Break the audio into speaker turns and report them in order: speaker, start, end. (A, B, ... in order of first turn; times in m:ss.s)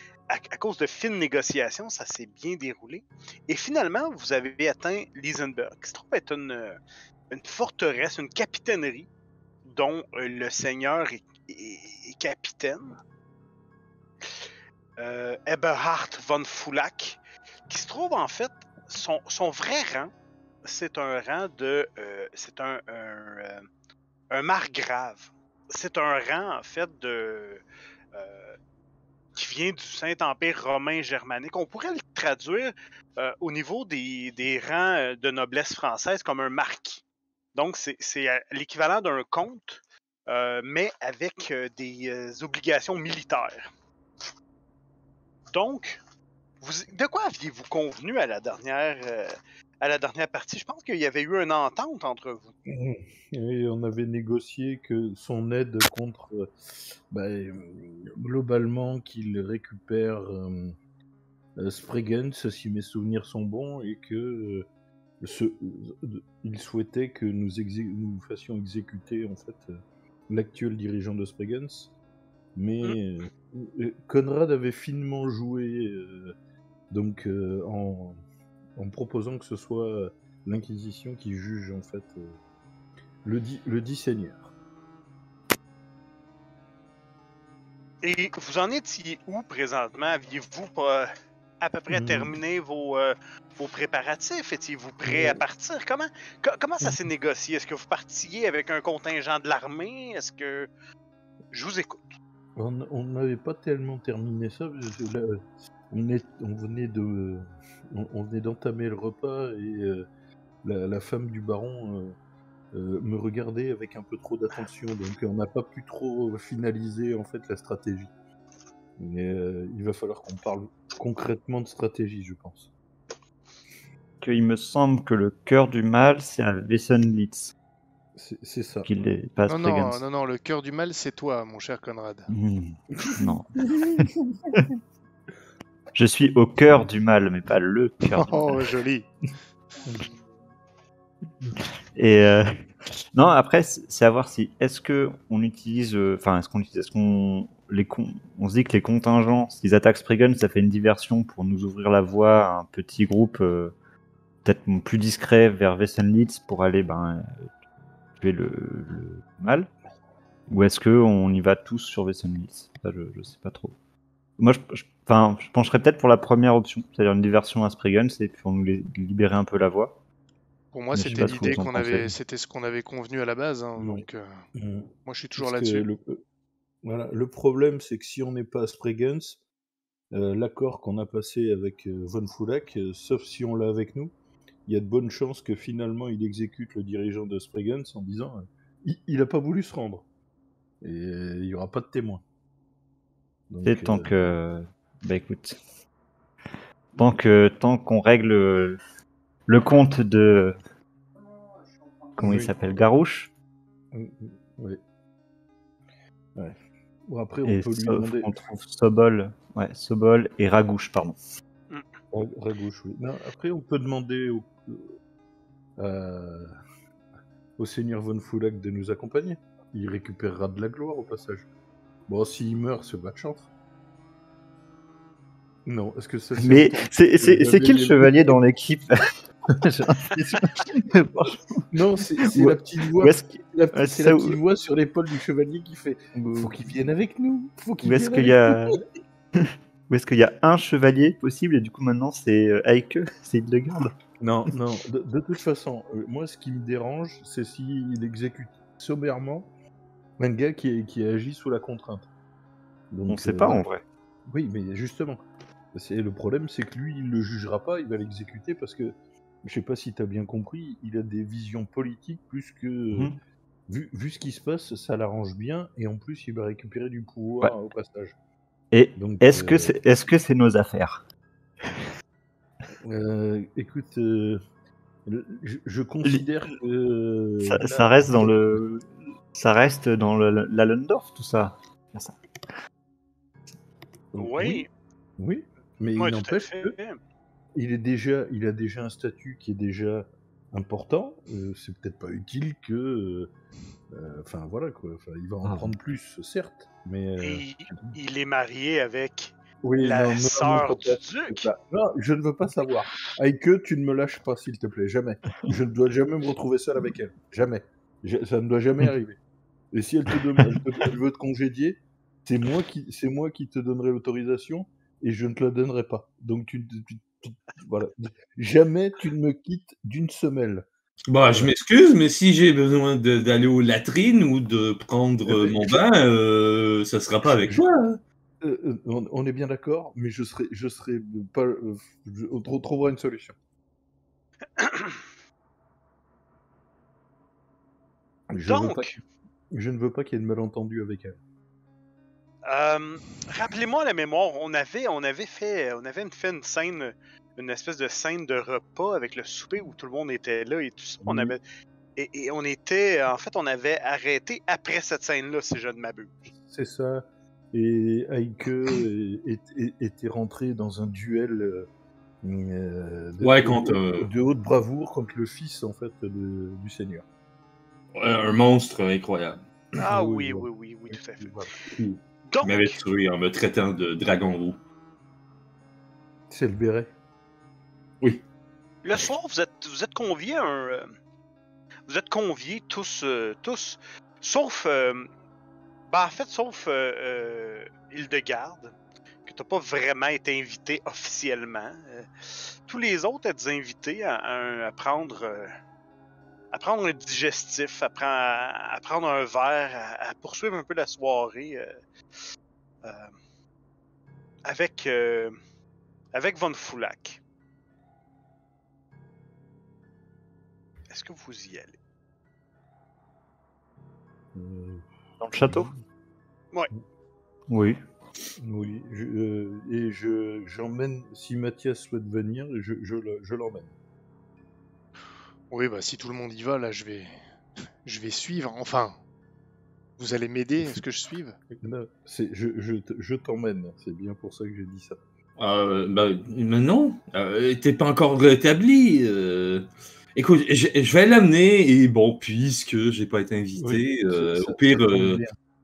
0:00.3-0:06.8 A
0:07.3-0:09.1 A
0:09.6-0:13.0 A
0:15.0-0:20.1 A
0:20.6-0:23.6 A
0:24.3-0:27.6 A
0:28.1-0:28.6 A
0:29.4-0:37.0 A
0:37.5-0:43.6 A
0:45.5-0:46.0 A
0:46.6-0:52.5 A
0:52.7-0:56.5 B
0:57.1-1:00.7 B
1:01.6-1:04.6 B
1:05.2-1:09.7 B
1:10.3-1:11.9 B
1:12.6-1:16.3 B
1:16.9-1:18.2 B
1:18.8-1:22.4 B
1:23.2-1:24.5 B
1:28.0-1:40.7 A
1:31.9-1:32.3 B
1:35.1-1:35.4 B
1:41.5-1:42.0 A
1:42.6-1:45.4 B
1:45.9-1:50.0 B
1:50.6-1:52.2 B
1:52.7-1:58.1 B
1:59.0-2:02.7 B
2:04.2-2:07.5 C
2:08.2-2:08.9 B
2:08.8-2:10.0 C
2:09.5-2:12.3 D
2:12.3-2:14.1 C
2:13.6-2:14.6 B
2:15.9-2:18.8 C
2:18.1-2:19.1 D
2:21.9-2:22.6 C
2:23.1-2:33.7 C
2:34.4-2:37.4 C
2:38.2-2:39.7 C
2:40.5-2:43.8 C
2:44.4-2:50.0 C
2:50.7-2:54.4 D
2:50.9-2:52.1 C
2:51.0-2:51.7 B
2:53.8-2:54.0 B
2:54.6-2:56.2 B
2:55.0-2:55.8 D
2:56.8-2:59.4 B
3:00.1-3:04.1 B
3:04.7-3:10.0 B
3:10.8-3:12.2 B
3:13.5-3:14.4 B
3:13.6-3:15.6 C
3:17.0-3:18.8 C
3:19.5-3:20.6 C
3:22.2-3:23.3 C
3:22.2-3:22.6 B
3:23.9-3:24.8 B
3:27.1-3:28.3 B
3:27.4-3:31.2 C
3:32.1-3:34.9 B
3:35.8-3:36.5 B
3:37.6-3:41.4 B
3:42.1-3:43.5 B
3:45.6-3:48.4 B
3:46.4-3:49.1 C
3:49.5-3:50.8 B
3:49.9-3:51.6 C
3:51.7-3:58.8 B
3:52.2-3:54.4 C
3:57.8-3:58.8 C
3:59.4-4:03.9 C
4:04.2-4:09.5 B
4:10.2-4:12.1 B
4:12.9-4:13.6 B
4:13.1-4:13.8 C
4:14.3-4:15.2 B
4:15.7-4:23.1 B
4:23.7-4:28.1 B
4:28.7-4:31.0 C
4:29.0-4:29.7 B
4:32.8-4:34.4 B
4:35.0-4:38.6 B
4:37.4-4:42.2 C
4:44.1-4:44.6 B
4:44.2-4:44.7 A
4:45.2-4:46.8 B
4:46.0-4:47.0 A
4:47.5-4:53.3 B
4:53.9-4:57.9 B
4:57.2-5:01.5 A
4:59.6-5:09.2 B
5:09.7-5:20.6 B
5:21.1-5:28.0 E
5:21.2-5:21.5 B
5:25.3-5:25.8 B
5:28.4-5:33.4 B
5:34.6-5:35.0 A
5:38.3-5:38.9 B
5:38.4-5:39.0 A
5:39.5-5:41.2 B
5:42.4-5:51.4 A
5:51.0-5:51.4 B
5:52.0-5:56.3 A
5:56.3-6:01.7 B
6:02.2-6:07.0 B
6:03.2-6:04.1 E
6:07.9-6:09.4 E
6:09.8-6:11.4 A
6:09.8-6:11.7 B
6:11.8-6:14.6 E
6:12.3-6:12.8 A
6:16.3-6:16.9 B
6:18.8-6:20.9 A
6:21.9-6:25.1 A
6:25.9-6:32.1 A
6:32.7-6:35.5 A
6:36.5-6:41.8 A
6:42.8-6:43.1 A
6:44.4-6:45.3 A
6:46.1-6:47.2 A
6:50.9-6:51.7 A
6:54.3-6:54.9 B
6:55.2-6:55.7 C
6:57.5-6:57.8 C
6:58.4-7:03.7 B
7:05.5-7:07.2 D
7:07.8-7:09.0 D
7:10.0-7:11.4 D
7:11.6-7:15.0 B
7:15.4-7:25.2 E
7:23.6-7:25.3 B